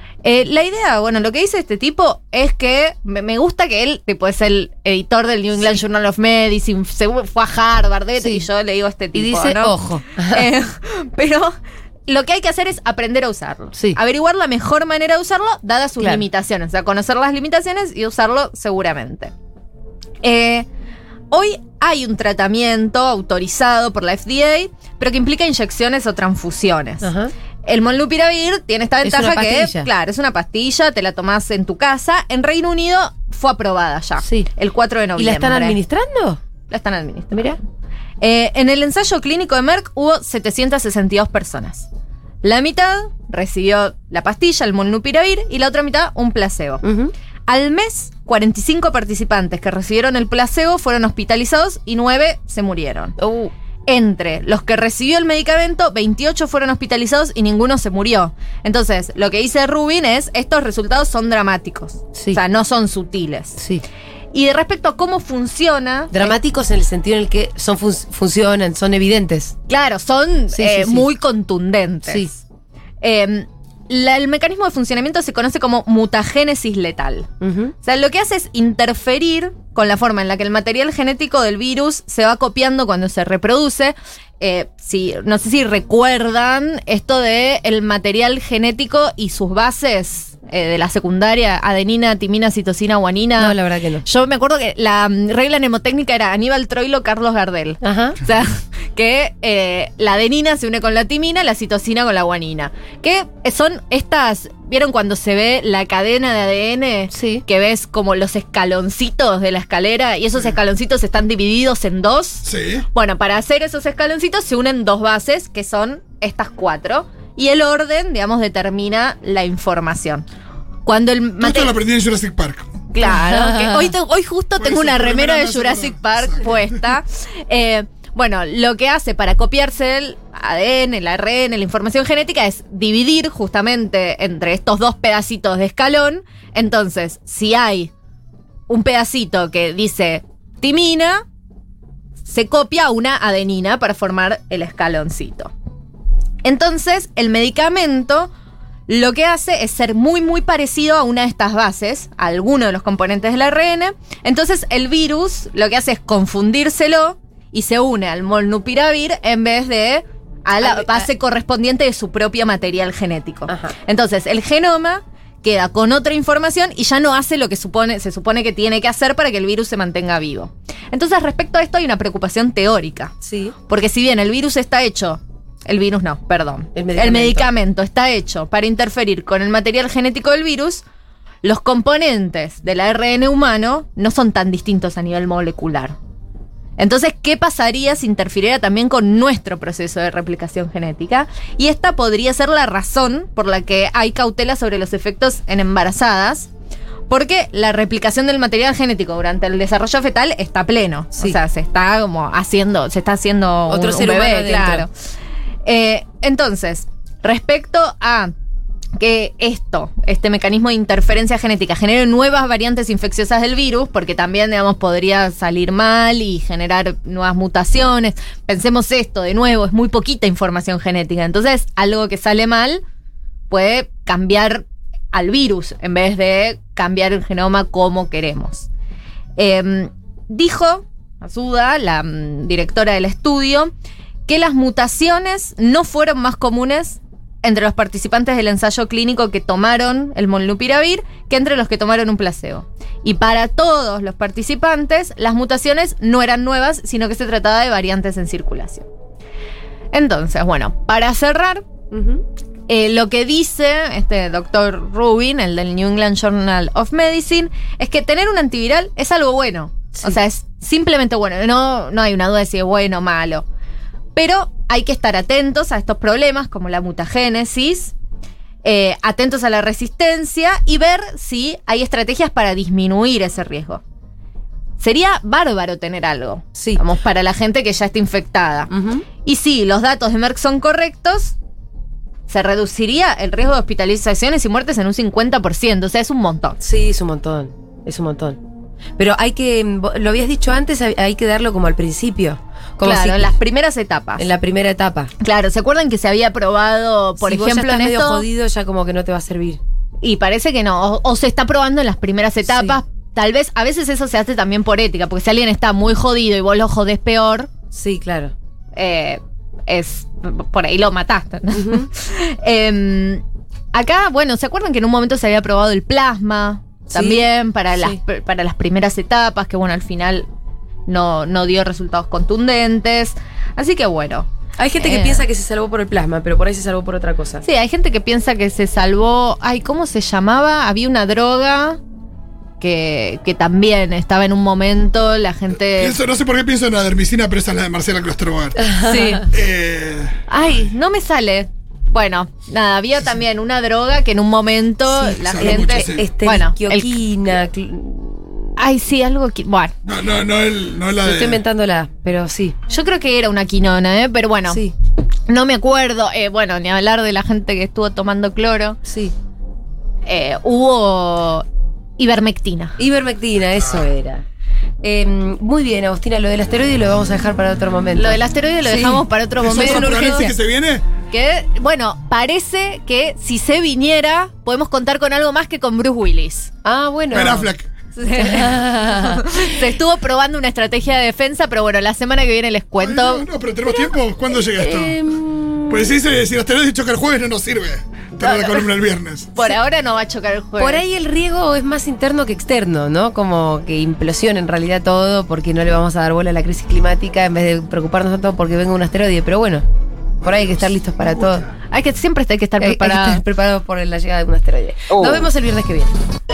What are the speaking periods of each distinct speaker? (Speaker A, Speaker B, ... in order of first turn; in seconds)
Speaker A: 0.2-11.6, 12.1-19.3, 20.2-20.7, 21.3-27.1, 27.7-35.8, 36.7-37.6, 38.2-41.9, 42.4-46.8, 47.5-53.2, 53.9-63.6, 64.3-66.3, 69.7-72.4, 73.0-77.3, 77.8-120.2, 120.9-121.7, 122.9-137.9, 138.7-141.2, 142.3-145.5, 146.4-148.3, 148.9-173.1, 173.7-180.8, 181.4-186.0, 186.8-196.5, 197.1-204.9, 205.7-208.3, 209.0-222.8, 223.5-228.7, 229.4-233.7, 234.3-248.9, 249.9-251.7, 252.7-263.5, 264.1-267.9, 268.6-273.8, 274.8-278.7, 279.2-281.4, 282.3-286.6, 292.8-294.3, 295.2-298.3, 300.0-307.5, 308.8-320.3, 320.9-325.2, 327.4-331.8, 332.6-336.0, 338.8-339.3, 340.3-347.0, 348.6-349.7, 352.7-354.6, 355.3-358.8, 360.1-361.5, 362.0-362.8, 368.0-370.3, 371.1-376.5, 377.9-383.2, 388.2-388.5, 389.4-390.8, 401.7-403.2
Speaker B: 8.2-8.4, 9.1-10.5, 16.0-16.2, 27.0-27.3, 29.0-29.9, 34.2-34.5, 35.2-36.4, 46.8-47.1, 53.2-53.5, 62.1-62.4, 63.6-63.8, 66.1-69.6, 70.5-71.1, 77.4-77.7, 93.4-94.0, 97.8-98.2, 107.1-107.4, 123.0-123.9, 160.6-161.1, 163.5-163.7, 173.2-173.6, 176.7-177.5, 203.7-204.9, 251.9-252.2, 276.6-276.8, 278.7-279.1, 286.6-288.4, 289.0-293.4, 294.2-295.1, 297.2-299.6, 302.5-302.8, 307.7-308.3, 311.6-311.9, 316.9-318.0, 324.6-327.4, 338.6-339.2, 345.0-348.5, 351.0-352.6, 354.5-354.7, 358.9-359.1, 362.8-364.2, 364.8-370.3, 376.6-377.5, 378.1-379.5, 383.6-385.9, 390.6-399.6, 400.2-401.5, 402.6-405.9
Speaker C: 112.5-112.9, 121.4-122.7, 124.6-126.5, 335.8-338.7, 339.3-340.2, 345.2-346.0, 349.9-351.4, 369.4-370.9, 377.1-377.7, 382.8-385.0, 385.7-389.3